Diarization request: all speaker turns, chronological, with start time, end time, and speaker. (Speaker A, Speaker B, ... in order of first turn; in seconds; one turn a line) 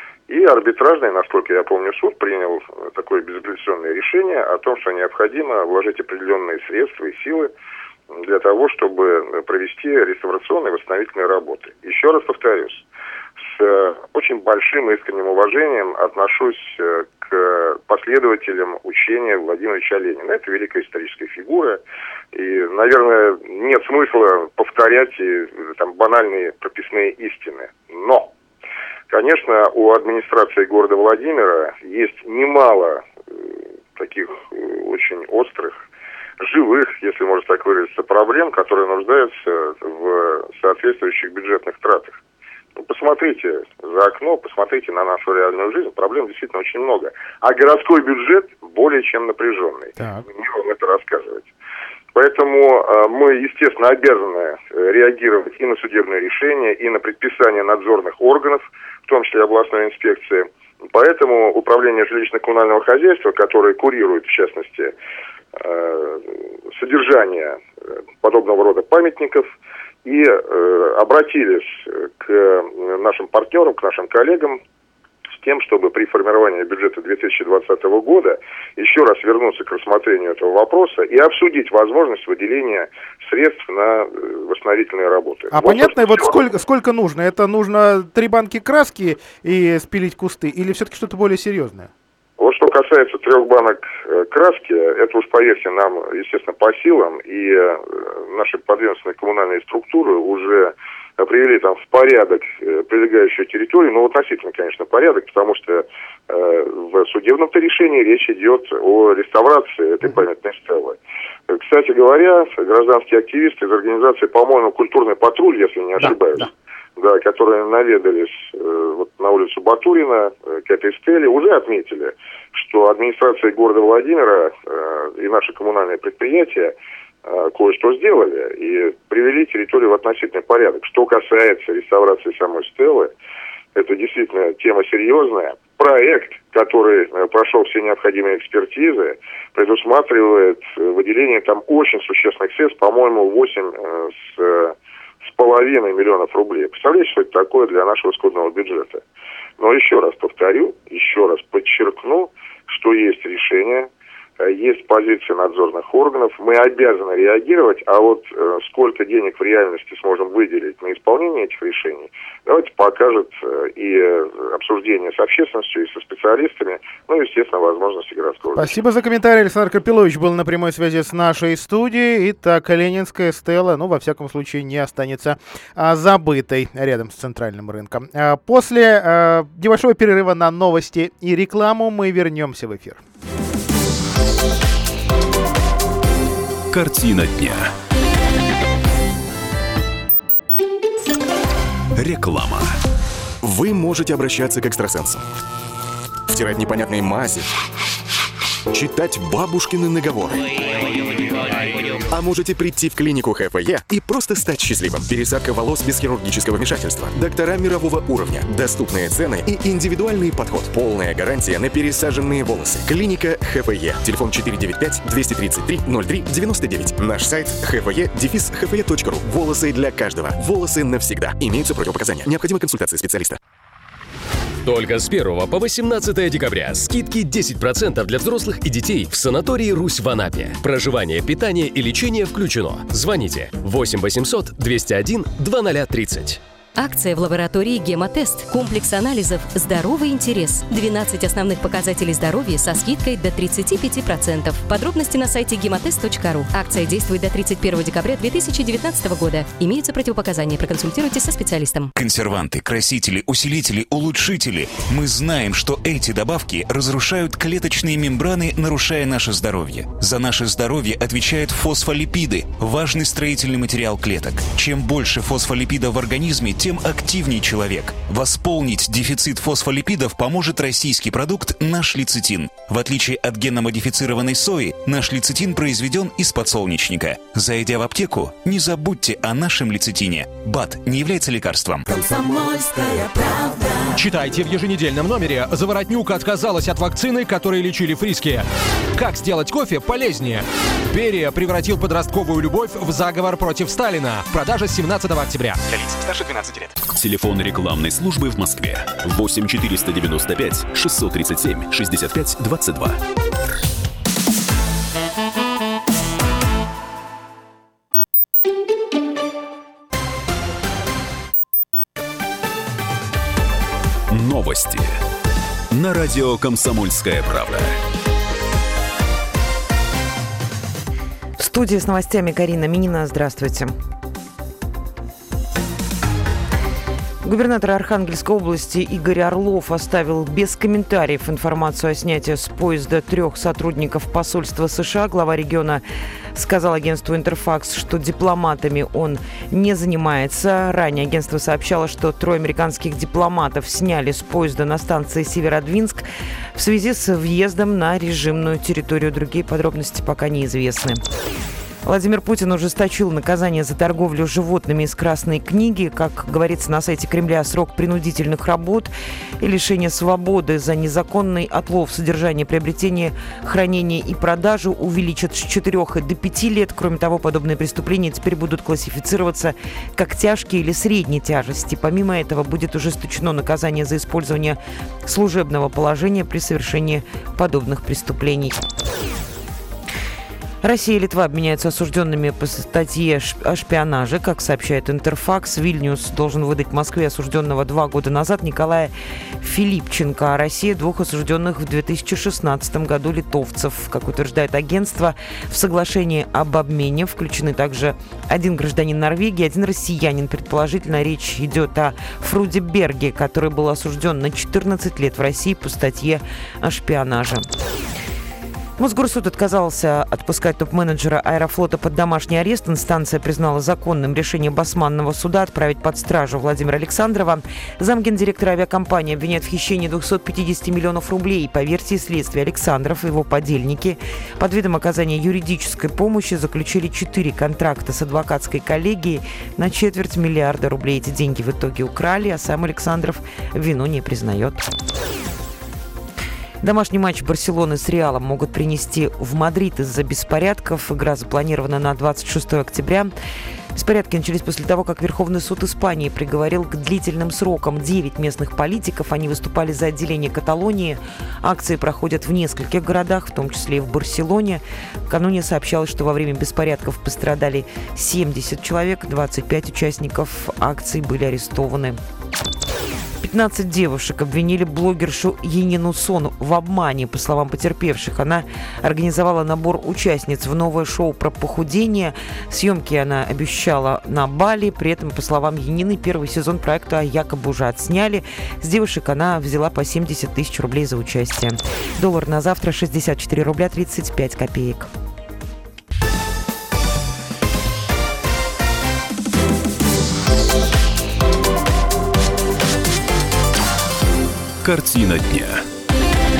Speaker A: 0.3-7.5
Speaker A: 8.1-12.8
Speaker A: 13.4-21.8
Speaker A: 22.3-28.3
Speaker A: 29.1-35.8
Speaker A: 36.4-42.2
Speaker A: 42.8-51.5
Speaker B: 50.0-50.2
Speaker A: 52.1-64.9
Speaker A: 65.5-67.6
Speaker A: 68.2-69.5
Speaker A: 70.0-74.6
Speaker A: 75.3-86.3
Speaker B: 85.5-91.9
Speaker A: 92.4-133.1
Speaker B: 116.0-116.5
Speaker A: 133.7-149.0
Speaker A: 149.6-153.9
Speaker A: 154.4-168.8
Speaker B: 168.5-183.0
Speaker C: 186.7-187.7
Speaker C: 191.9-192.7
Speaker D: 193.4-195.2
Speaker D: 196.3-197.5
Speaker D: 198.7-223.4
Speaker E: 224.6-236.4
Speaker F: 236.8-251.9
Speaker G: 251.9-282.0
Speaker H: 283.9-295.7
Speaker D: 295.9-296.7
Speaker C: 296.9-303.0
Speaker C: 314.1-315.0
Speaker C: 315.7-317.8
Speaker I: 321.4-323.7
Speaker I: 327.2-335.8
Speaker I: 336.3-351.0
Speaker I: 351.8-378.6
Speaker I: 380.6-407.5
Speaker I: 408.8-434.6
Speaker I: 436.6-443.1
Speaker I: 443.7-462.0
Speaker I: 463.2-484.9
Speaker C: 494.6-495.6